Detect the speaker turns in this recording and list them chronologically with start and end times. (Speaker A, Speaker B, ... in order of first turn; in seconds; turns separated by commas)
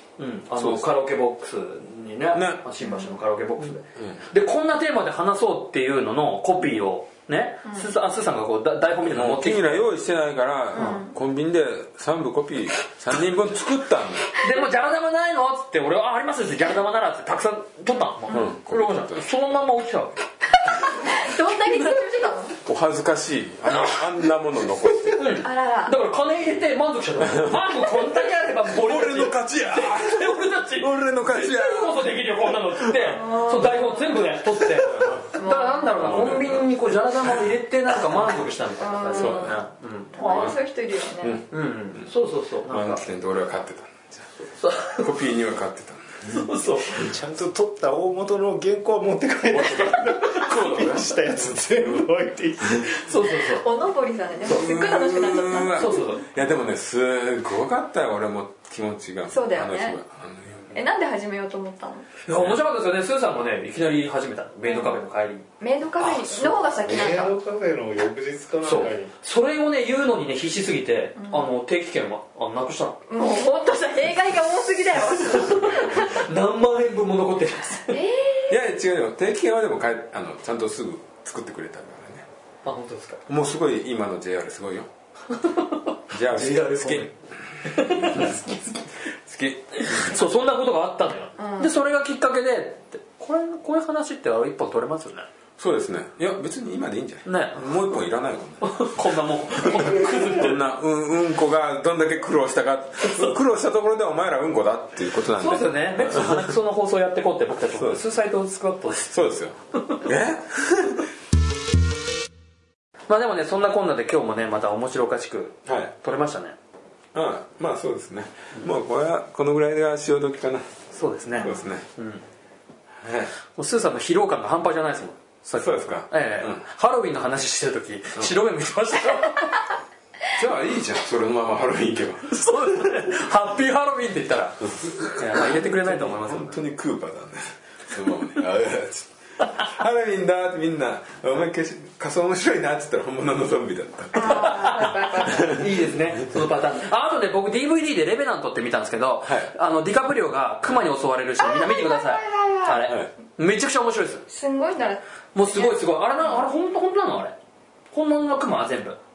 Speaker A: 0.2-9.9, Speaker B: 0.6-0.9, Speaker B: 2.3-2.6, Speaker C: 2.8-3.2, Speaker B: 4.0-4.2, Speaker B: 9.1-14.3, Speaker C: 10.7-11.1, Speaker A: 14.4-20.1, Speaker B: 18.3-19.3, Speaker C: 20.6-22.6, Speaker B: 22.6-25.4, Speaker A: 25.1-40.5, Speaker C: 25.3-26.0, Speaker B: 27.2-27.6, Speaker B: 28.7-32.1, Speaker C: 33.0-34.3, Speaker B: 34.8-35.2, Speaker C: 35.4-36.2, Speaker B: 36.0-36.7, Speaker C: 38.8-39.6, Speaker B: 39.1-39.6, Speaker C: 40.1-41.5, Speaker B: 40.2-40.6, Speaker B: 41.2-42.1, Speaker A: 41.5-43.0, Speaker B: 42.7-44.3, Speaker A: 44.4-45.1, Speaker B: 44.9-46.5, Speaker A: 46.3-47.1, Speaker D: 47.0-53.1, Speaker A: 50.2-50.9, Speaker A: 52.9-53.6, Speaker C: 53.2-56.0, Speaker B: 54.4-60.8, Speaker A: 55.7-56.2, Speaker C: 59.3-60.0, Speaker C: 60.7-62.1, Speaker A: 62.3-65.5, Speaker C: 64.7-65.0, Speaker C: 65.6-67.3, Speaker A: 66.0-66.6, Speaker D: 66.8-69.1, Speaker A: 68.6-73.0, Speaker C: 71.2-71.5, Speaker C: 73.1-76.2, Speaker A: 75.2-78.0, Speaker C: 77.9-78.6, Speaker B: 78.5-82.3, Speaker A: 82.6-83.2, Speaker B: 83.3-84.9, Speaker A: 85.3-87.1, Speaker B: 86.1-87.1, Speaker D: 86.6-86.9, Speaker B: 87.6-88.5, Speaker A: 87.7-88.7, Speaker B: 89.2-90.2, Speaker A: 89.8-95.3, Speaker C: 91.4-91.7, Speaker B: 95.6-106.5, Speaker A: 97.3-97.6, Speaker A: 98.6-100.6, Speaker A: 103.0-103.4, Speaker A: 105.4-109.1, Speaker B: 107.7-108.0, Speaker B: 109.1-111.1, Speaker A: 113.1-116.6, Speaker B: 115.7-115.9, Speaker B: 117.1-120.8, Speaker A: 120.9-122.2, Speaker B: 121.3-121.8, Speaker C: 121.4-121.7, Speaker B: 123.0-123.3, Speaker A: 123.5-129.6, Speaker B: 125.5-126.6, Speaker B: 130.3-132.4, Speaker A: 132.3-136.6, Speaker B: 134.6-146.4, Speaker C: 144.1-145.7, Speaker A: 144.2-154.3, Speaker B: 149.2-149.5, Speaker C: 151.4-152.9, Speaker C: 154.3-156.3, Speaker A: 155.3-157.4, Speaker A: 157.9-159.0